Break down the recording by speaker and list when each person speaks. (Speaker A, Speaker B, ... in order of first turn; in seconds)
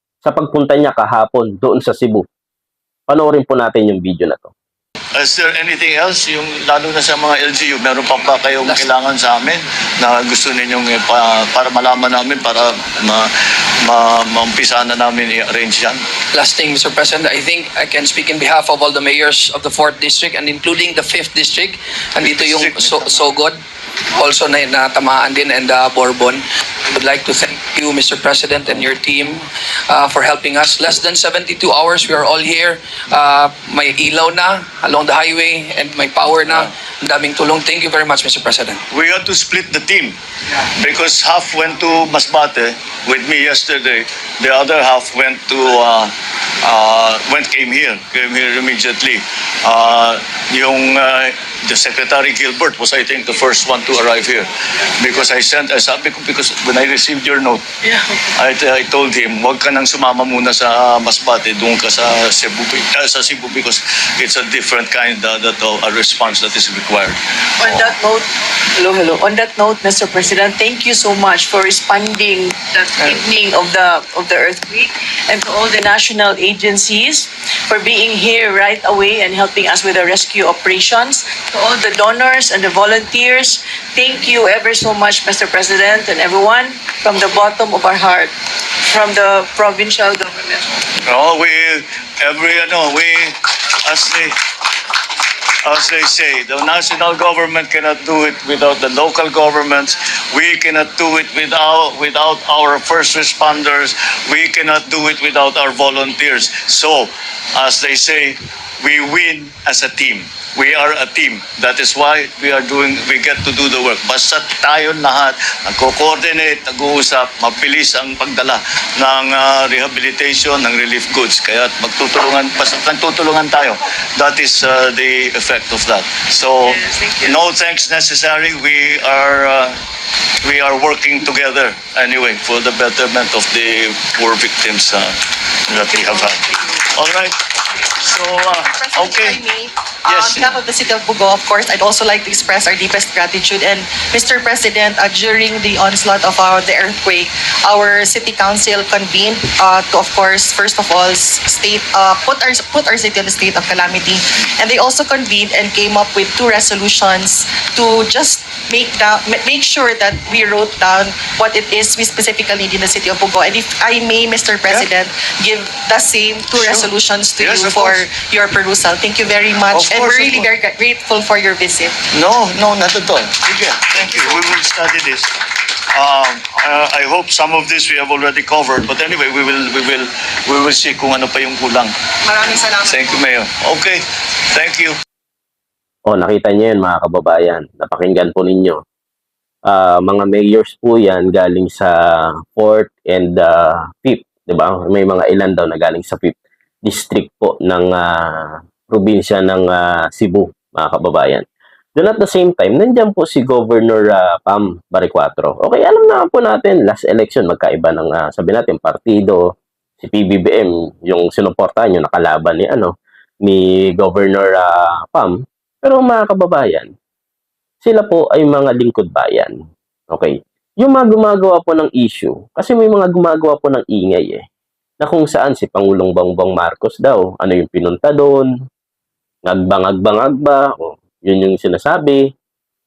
Speaker A: 0.2-2.2, 3.1-4.5, 186.1-188.8, 189.7-201.4, 201.9-209.4, 210.0-212.9, 213.4-216.9, 217.8-219.5, 220.1-224.4, 225.0-228.5, 229.4-232.2
Speaker B: 5.2-13.3, 13.8-16.0, 22.2-23.2, 38.9-46.1, 46.6-57.6, 58.4-67.9, 91.0-94.3, 95.6-129.7, 130.4-135.1, 135.7-137.4, 138.0-139.4, 140.1-140.6, 166.6-168.1, 169.7-170.5, 172.1-175.3, 175.9-181.9, 182.8-184.0, 184.5-185.0
Speaker C: 16.3-23.6, 24.1-26.4, 26.9-38.8
Speaker D: 57.8-58.3, 67.6-88.3, 88.9-90.7, 126.6-127.4, 136.0-136.8
Speaker E: 138.7-171.9, 182.2-183.2